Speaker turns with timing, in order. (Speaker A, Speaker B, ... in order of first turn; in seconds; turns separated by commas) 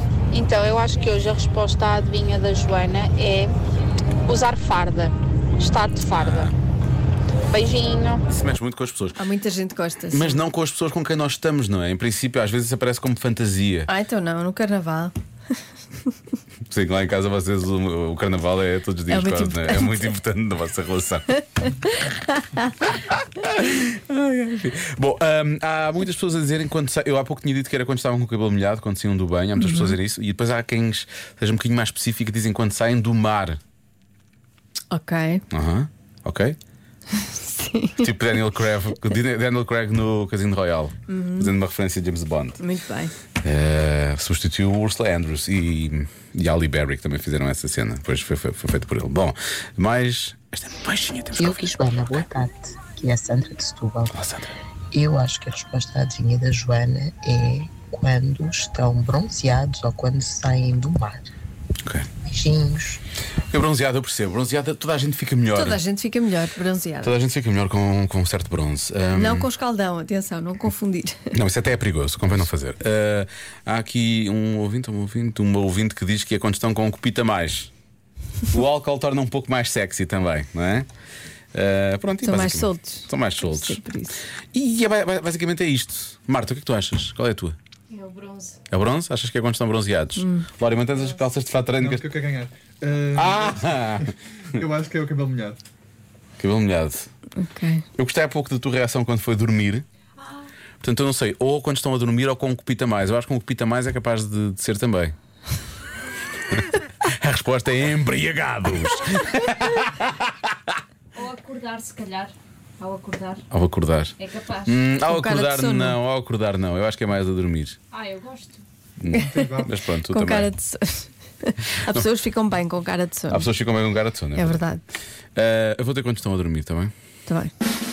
Speaker A: 0.3-3.5, Speaker A: 4.3-6.5, Speaker B: 6.2-6.5, Speaker A: 7.5-8.2, Speaker B: 8.3-9.2, Speaker C: 9.2-10.4, Speaker B: 10.1-13.9, Speaker C: 13.9-15.1, Speaker B: 16.7-21.2, Speaker C: 19.1-20.1, Speaker C: 21.6-22.7, Speaker B: 22.8-33.6, Speaker C: 29.6-29.9, Speaker C: 34.9-35.4, Speaker B: 35.5-36.5, Speaker C: 37.1-38.1, Speaker B: 38.0-42.6, Speaker C: 41.1-41.5, Speaker C: 42.6-43.1, Speaker B: 43.4-51.6, Speaker D: 51.4-54.1, Speaker B: 54.1-54.5, Speaker D: 54.9-61.3, Speaker D: 62.2-63.0, Speaker B: 63.5-65.8, Speaker C: 65.5-67.1, Speaker B: 67.0-69.5, Speaker C: 69.1-71.3, Speaker B: 71.3-77.7, Speaker B: 78.5-80.9, Speaker B: 81.5-83.8, Speaker C: 82.2-84.2, Speaker B: 84.5-87.5, Speaker E: 87.9-88.6, Speaker B: 88.7-92.0, Speaker C: 90.2-90.5, Speaker F: 91.8-95.6, Speaker B: 93.1-94.1, Speaker B: 96.4-97.1, Speaker C: 97.4-97.8, Speaker B: 98.0-99.8, Speaker B: 100.8-105.1, Speaker B: 106.5-110.5, Speaker E: 111.1-113.4, Speaker B: 113.5-114.1, Speaker E: 114.2-114.8, Speaker B: 114.7-117.8, Speaker C: 115.0-116.0, Speaker E: 117.9-118.6, Speaker B: 119.0-120.5, Speaker F: 119.1-119.7, Speaker C: 119.1-119.5, Speaker C: 120.1-123.5, Speaker B: 123.3-124.6, Speaker C: 124.3-124.8, Speaker B: 125.3-126.9, Speaker C: 127.3-127.5